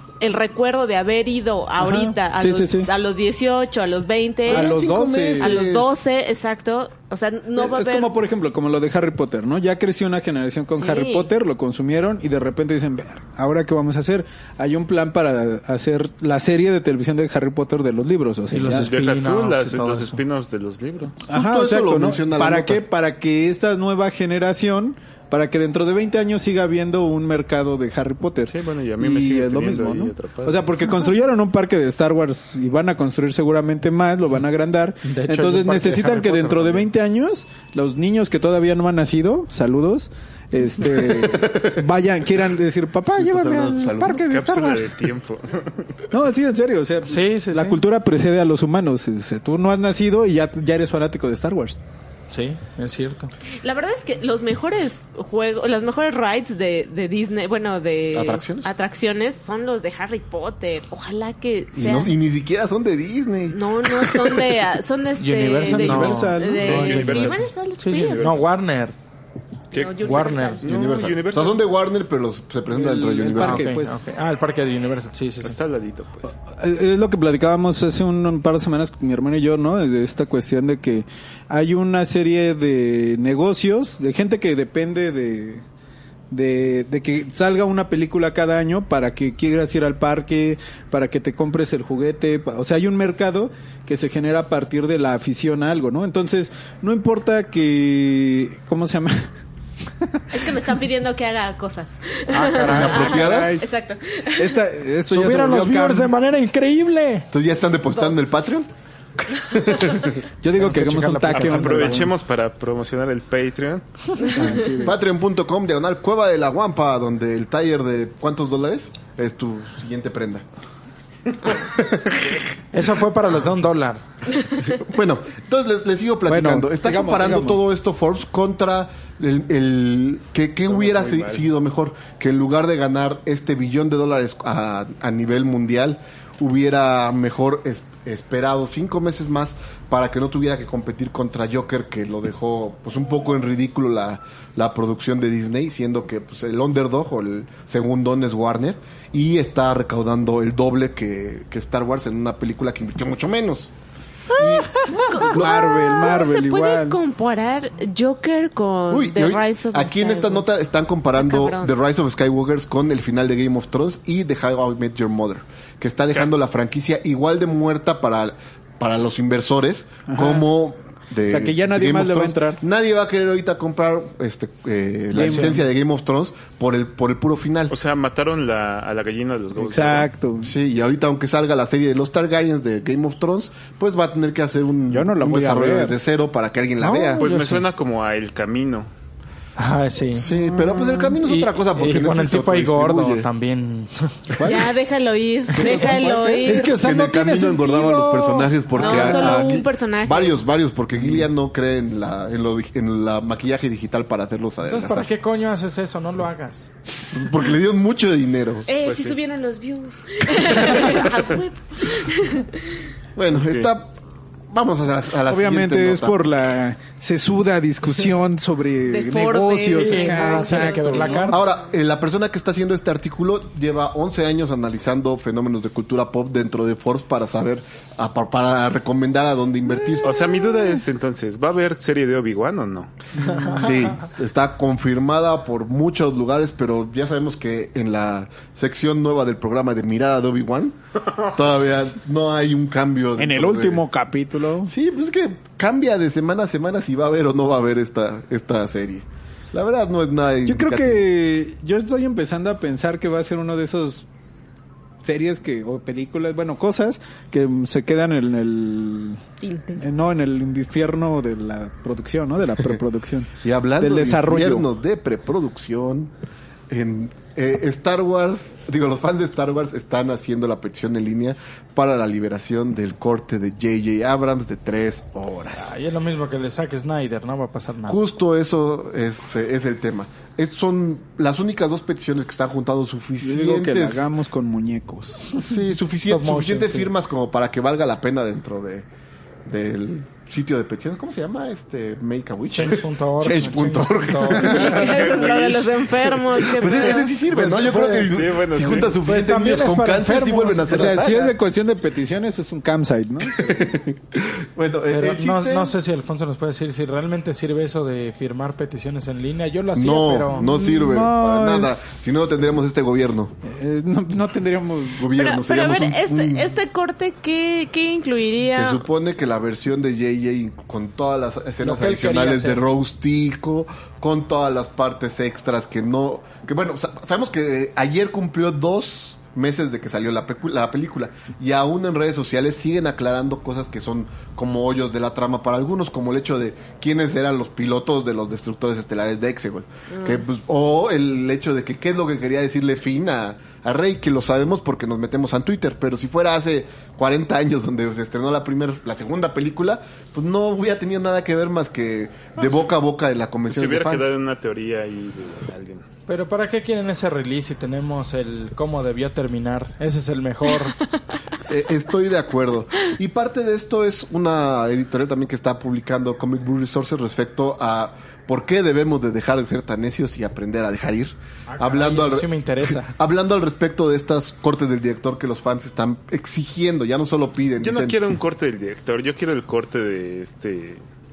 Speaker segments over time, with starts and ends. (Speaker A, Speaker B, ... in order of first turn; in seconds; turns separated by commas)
Speaker A: 0.2-4.8, Speaker B: 1.8-2.9, Speaker B: 4.5-5.6, Speaker C: 4.5-6.0, Speaker A: 5.4-8.2, Speaker B: 7.6-18.9, Speaker A: 10.7-11.3, Speaker D: 18.5-20.2, Speaker E: 18.9-21.2, Speaker B: 21.3-45.0, Speaker C: 21.3-22.8, Speaker E: 28.5-30.8, Speaker D: 35.0-36.9, Speaker C: 41.0-41.7, Speaker C: 43.2-44.3, Speaker E: 44.1-46.0, Speaker B: 46.1-51.8, Speaker D: 47.0-47.8, Speaker D: 52.3-53.3, Speaker A: 53.6-62.1, Speaker C: 58.1-58.7, Speaker C: 61.7-64.6, Speaker A: 63.5-68.3, Speaker D: 65.2-68.9, Speaker B: 65.6-67.4, Speaker E: 66.6-68.4, Speaker E: 69.7-71.6, Speaker A: 69.7-70.7, Speaker D: 70.0-70.6, Speaker C: 70.6-73.7, Speaker B: 72.7-74.2, Speaker D: 73.4-75.5, Speaker E: 75.4-76.3, Speaker B: 76.5-85.6, Speaker B: 86.3-99.3, Speaker B: 100.0-100.5, Speaker A: 100.3-104.6, Speaker D: 102.3-103.3, Speaker C: 102.6-103.7, Speaker B: 103.0-103.7, Speaker B: 104.3-106.1, Speaker D: 105.1-107.3, Speaker C: 107.3-108.7, Speaker C: 109.2-110.2, Speaker B: 110.4-112.1, Speaker D: 110.6-112.1, Speaker E: 111.3-114.1, Speaker A: 114.2-114.5, Speaker B: 114.2-115.0, Speaker C: 114.5-120.4, Speaker C: 121.4-122.4, Speaker D: 122.7-124.0, Speaker C: 124.6-153.7, Speaker B: 126.3-127.6, Speaker E: 130.9-131.4, Speaker C: 154.3-155.8, Speaker B: 154.4-157.0, Speaker A: 154.9-160.4, Speaker C: 158.9-177.7, Speaker A: 161.1-161.7, Speaker B: 170.1-170.4, Speaker B: 171.3-172.6, Speaker B: 175.1-175.6, Speaker D: 175.2-175.6, Speaker E: 177.7-180.1, Speaker B: 179.6-180.5, Speaker C: 180.4-187.2, Speaker B: 184.9-186.0, Speaker B: 186.9-187.2, Speaker D: 187.1-187.6, Speaker E: 187.2-188.9, Speaker D: 189.6-190.3, Speaker C: 190.1-193.3, Speaker B: 190.3-191.1, Speaker D: 191.2-194.4, Speaker C: 194.3-194.7, Speaker A: 194.4-196.7, Speaker B: 195.5-196.6, Speaker D: 196.4-199.2, Speaker C: 196.7-205.1, Speaker A: 198.8-200.3, Speaker B: 198.8-199.3, Speaker D: 204.6-206.7, Speaker C: 207.1-208.7, Speaker A: 208.7-212.8, Speaker E: 208.8-209.2, Speaker C: 213.2-213.9, Speaker E: 213.3-213.7, Speaker C: 214.5-216.2, Speaker B: 215.3-221.3, Speaker A: 218.9-221.3, Speaker D: 219.7-221.4, Speaker C: 221.3-230.1, Speaker E: 230.0-232.9, Speaker D: 233.2-233.9, Speaker B: 233.2-233.6, Speaker C: 233.5-243.8, Speaker B: 243.2-244.7, Speaker C: 244.6-251.0, Speaker B: 250.4-254.1, Speaker B: 255.0-259.2, Speaker A: 259.4-259.8, Speaker B: 259.8-264.6, Speaker C: 263.4-266.1, Speaker C: 266.7-275.8, Speaker D: 275.5-278.0, Speaker C: 277.9-284.1, Speaker B: 283.2-285.5, Speaker C: 285.4-288.9, Speaker D: 286.0-286.9, Speaker C: 289.4-295.5, Speaker D: 292.5-294.6, Speaker A: 294.3-297.1, Speaker E: 294.6-296.4, Speaker C: 296.4-301.3, Speaker D: 297.4-298.0, Speaker E: 297.9-298.9, Speaker D: 298.9-301.0, Speaker B: 300.7-303.5, Speaker C: 303.3-305.7, Speaker D: 304.9-310.5, Speaker C: 309.7-313.3, Speaker B: 310.4-311.9, Speaker B: 313.4-315.1, Speaker C: 314.9-316.5, Speaker A: 315.1-318.8, Speaker C: 318.5-354.1, Speaker D: 321.6-322.6, Speaker A: 339.9-340.2, Speaker E: 352.4-352.7, Speaker E: 353.5-355.9, Speaker D: 356.1-360.8, Speaker C: 361.4-378.0, Speaker D: 371.5-372.9, Speaker E: 377.6-380.8